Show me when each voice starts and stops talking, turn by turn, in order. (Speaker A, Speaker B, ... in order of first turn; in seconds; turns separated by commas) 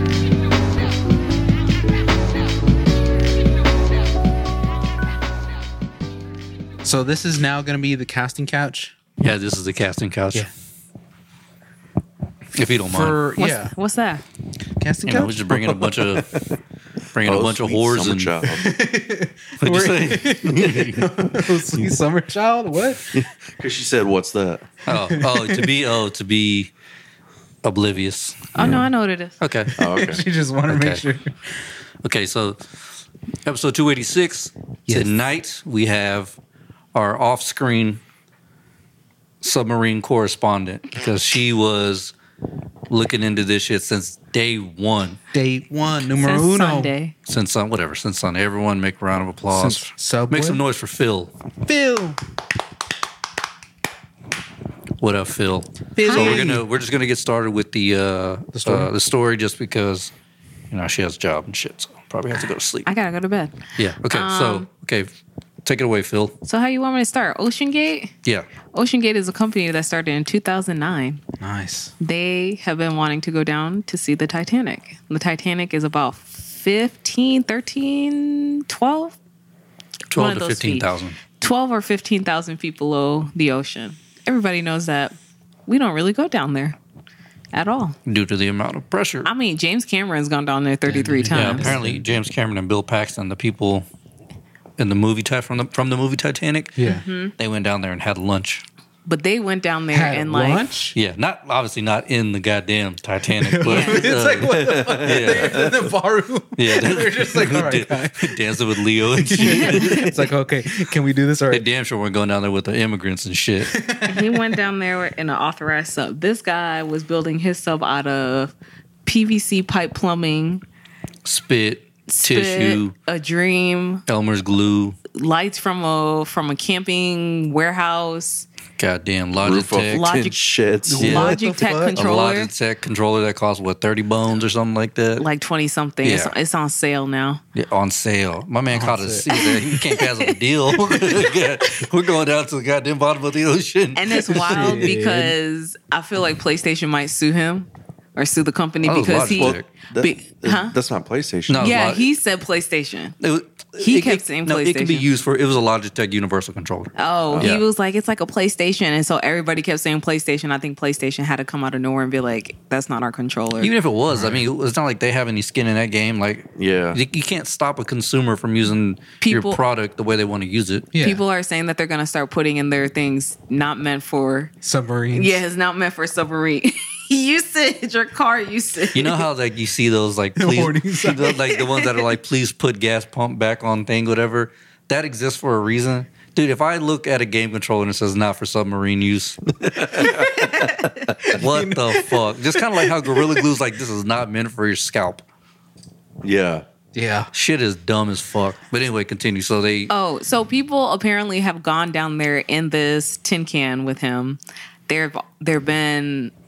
Speaker A: 6.8-8.9, Speaker B: 9.2-10.5, Speaker B: 12.6-13.2, Speaker A: 12.9-13.7, Speaker C: 13.4-14.2, Speaker A: 14.8-15.4, Speaker B: 15.1-16.4, Speaker D: 15.5-16.6, Speaker B: 17.1-18.3, Speaker D: 17.2-18.7, Speaker A: 18.5-23.1, Speaker B: 19.6-21.0, Speaker D: 20.4-21.5, Speaker D: 23.1-24.7, Speaker B: 24.9-26.7, Speaker A: 24.9-25.7, Speaker B: 27.6-28.8, Speaker C: 28.5-29.4, Speaker D: 28.6-28.8, Speaker B: 29.4-29.8, Speaker D: 29.8-30.2, Speaker A: 29.8-31.4, Speaker B: 30.7-31.0, Speaker B: 32.0-32.6, Speaker B: 33.5-36.4, Speaker A: 34.9-35.1, Speaker B: 36.9-38.0, Speaker B: 39.4-42.1, Speaker B: 42.9-45.2, Speaker A: 45.3-46.9, Speaker C: 46.2-47.1, Speaker B: 47.2-51.3, Speaker A: 49.5-50.6, Speaker A: 51.6-52.2, Speaker B: 55.0-60.1, Speaker A: 55.9-56.6, Speaker C: 56.0-56.5, Speaker A: 58.5-58.9, Speaker B: 60.7-62.9, Speaker C: 62.8-64.7, Speaker B: 63.8-65.1, Speaker B: 65.6-66.3, Speaker C: 66.4-68.1, Speaker C: 68.7-71.2, Speaker A: 71.4-71.9, Speaker C: 72.0-79.2, Speaker B: 80.1-81.2, Speaker C: 80.1-85.1, Speaker C: 85.7-86.8, Speaker C: 87.5-88.0, Speaker B: 88.0-89.3, Speaker C: 89.2-91.7, Speaker A: 90.8-92.0, Speaker B: 91.3-93.8, Speaker B: 94.8-96.8, Speaker A: 96.8-97.0, Speaker C: 96.8-97.3, Speaker B: 97.3-98.6, Speaker C: 99.0-100.7, Speaker A: 99.9-101.0, Speaker B: 100.9-105.7, Speaker A: 103.4-108.4, Speaker C: 103.7-104.1, Speaker D: 104.3-105.9, Speaker B: 106.6-110.2, Speaker A: 109.1-111.7, Speaker C: 109.4-109.9, Speaker B: 111.5-113.7, Speaker A: 113.6-114.4, Speaker C: 114.0-118.5, Speaker C: 119.0-120.6, Speaker B: 121.2-122.9, Speaker C: 122.1-124.0, Speaker B: 124.1-125.0, Speaker C: 125.1-128.5, Speaker B: 128.8-130.0, Speaker D: 129.4-131.2, Speaker C: 129.9-130.4, Speaker A: 130.9-132.1, Speaker C: 131.0-132.5, Speaker B: 131.0-131.3, Speaker B: 131.9-135.3, Speaker C: 135.2-137.4, Speaker B: 136.0-136.3, Speaker B: 137.5-145.0, Speaker A: 138.7-139.3, Speaker C: 139.3-141.7, Speaker C: 143.9-150.7, Speaker A: 144.5-145.3, Speaker B: 148.8-149.7, Speaker D: 149.4-151.8, Speaker B: 151.5-152.0, Speaker C: 151.6-153.2, Speaker B: 153.2-157.6, Speaker C: 153.8-155.1, Speaker C: 156.9-163.7, Speaker D: 157.3-157.5, Speaker B: 163.6-170.9, Speaker A: 164.1-164.4, Speaker D: 166.6-167.0, Speaker C: 169.2-169.6, Speaker A: 170.9-171.2, Speaker C: 171.0-174.5, Speaker A: 174.6-175.4, Speaker C: 175.1-179.2, Speaker B: 178.9-189.4, Speaker A: 180.4-181.4, Speaker C: 181.5-181.8, Speaker D: 189.6-191.3, Speaker B: 191.3-195.2, Speaker A: 191.3-192.2, Speaker A: 192.7-193.1, Speaker D: 196.2-196.6, Speaker A: 196.9-197.3, Speaker B: 197.3-199.9, Speaker C: 199.9-206.3